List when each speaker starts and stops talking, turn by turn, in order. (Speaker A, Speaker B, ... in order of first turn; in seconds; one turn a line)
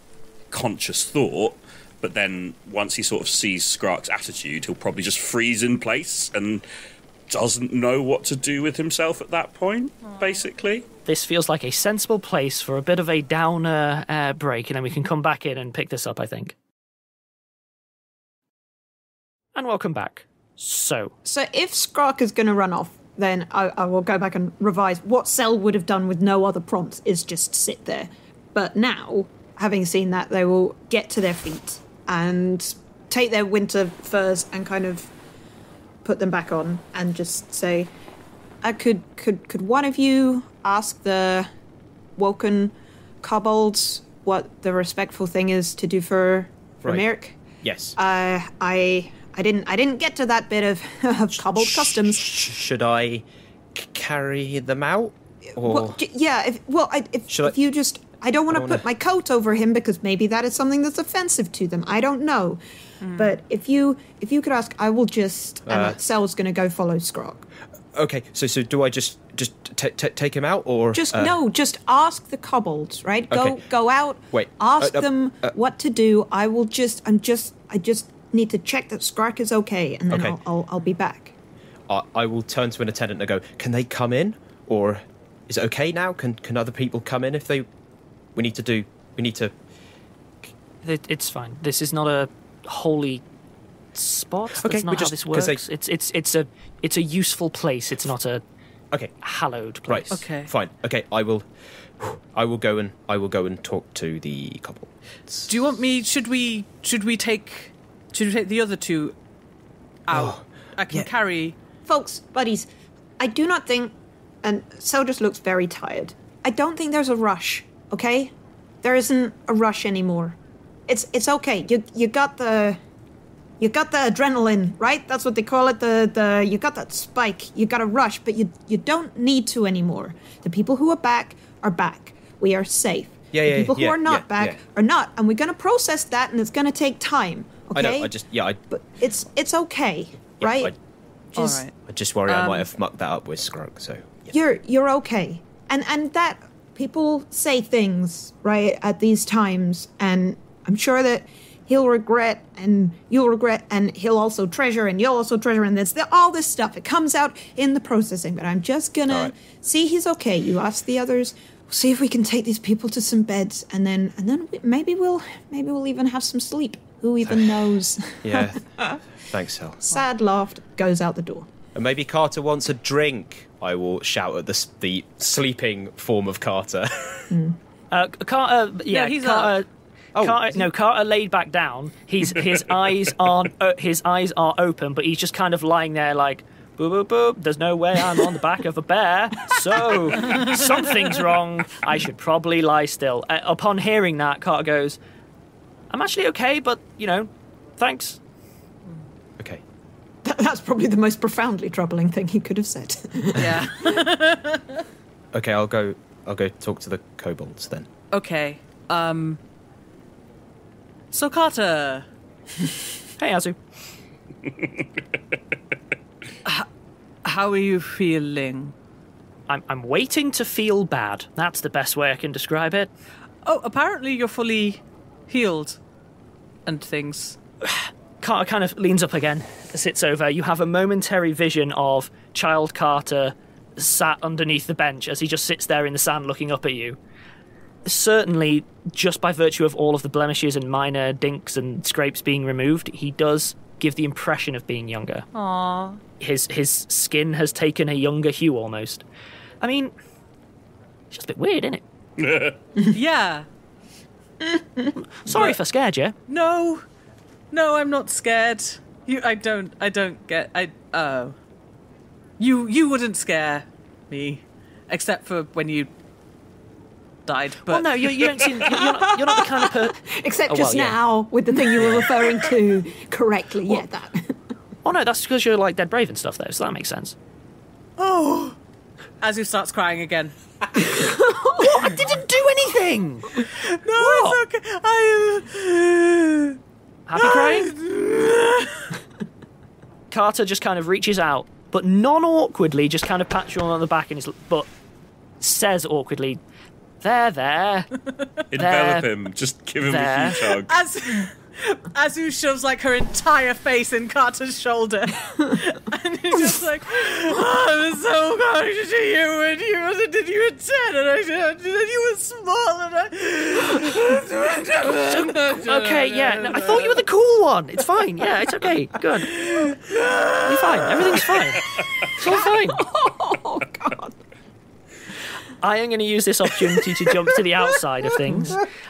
Speaker A: 0.5-6.6
Speaker A: 7.3-10.9
Speaker B: 11.0-16.5
Speaker B: 19.5-21.1
Speaker C: 21.2-35.1
Speaker C: 36.0-37.9
Speaker C: 38.6-41.5
Speaker C: 42.1-47.4
Speaker D: 47.6-48.0
Speaker C: 48.0-52.3
Speaker D: 51.6-56.0
Speaker C: 55.6-62.6
Speaker D: 57.3-57.5
Speaker D: 58.5-58.9
Speaker E: 63.0-63.4
Speaker C: 63.1-67.5
Speaker D: 65.7-66.0
Speaker D: 67.9-71.3
Speaker C: 70.9-81.3
Speaker D: 73.3-73.6
Speaker D: 74.3-75.5
Speaker D: 80.1-80.4
Speaker D: 81.9-87.7
Speaker D: 88.3-89.5
Speaker B: 90.8-93.2
Speaker B: 93.9-98.4
Speaker D: 94.5-95.6
Speaker B: 99.2-100.2
Speaker D: 99.9-101.5
Speaker E: 100.1-100.5
Speaker D: 102.0-105.5
Speaker E: 105.5-109.1
Speaker E: 110.1-111.5
Speaker D: 110.1-110.4
Speaker C: 111.9-112.7
Speaker C: 113.2-122.8
Speaker C: 123.6-138.1
Speaker D: 133.3-134.6
Speaker D: 137.7-138.6
Speaker C: 138.7-140.7
Speaker D: 140.4-140.8
Speaker C: 141.3-141.6
Speaker E: 141.4-141.7
Speaker D: 141.8-144.3
Speaker E: 142.3-142.6
Speaker C: 144.3-169.0
Speaker D: 167.2-168.6
Speaker D: 169.2-169.9
Speaker C: 169.9-171.5
Speaker D: 171.7-177.3
Speaker C: 177.3-177.6
Speaker B: 177.9-179.7
Speaker E: 178.9-179.6
Speaker D: 180.1-180.7
Speaker B: 180.2-195.0
Speaker E: 190.2-190.6
Speaker B: 195.9-198.2
Speaker C: 200.2-204.0
Speaker E: 203.3-204.8
Speaker D: 205.3-207.9
Speaker E: 208.1-209.4
Speaker E: 211.1-212.1
Speaker B: 213.2-213.6
Speaker E: 217.2-218.7
Speaker B: 219.5-222.9
Speaker E: 223.4-225.8
Speaker E: 226.7-227.4
Speaker B: 227.6-237.0
Speaker B: 237.8-245.2
Speaker E: 245.3-246.0
Speaker B: 246.2-249.0
Speaker B: 249.6-249.9
Speaker B: 251.1-251.8
Speaker A: 252.2-252.5
Speaker E: 252.9-253.5
Speaker C: 254.4-254.9
Speaker B: 255.0-256.1
Speaker E: 255.3-255.6
Speaker E: 256.3-256.8
Speaker E: 257.5-261.4
Speaker E: 262.4-265.9
Speaker E: 267.2-268.4
Speaker B: 267.7-271.0
Speaker C: 268.6-274.3
Speaker B: 274.8-277.1
Speaker E: 278.0-278.6
Speaker E: 279.2-280.8
Speaker C: 280.8-282.0
Speaker B: 281.6-284.4
Speaker E: 283.4-286.6
Speaker B: 287.1-287.7
Speaker E: 287.1-289.0
Speaker B: 290.1-294.7
Speaker B: 295.4-296.4
Speaker B: 297.0-297.9
Speaker A: 298.5-300.7
Speaker B: 298.5-299.1
Speaker B: 299.8-300.5
Speaker E: 300.5-317.0
Speaker B: 314.8-319.4
Speaker E: 319.3-320.9
Speaker B: 320.4-322.9
Speaker C: 322.2-324.1
Speaker B: 325.6-328.6
Speaker C: 328.2-328.6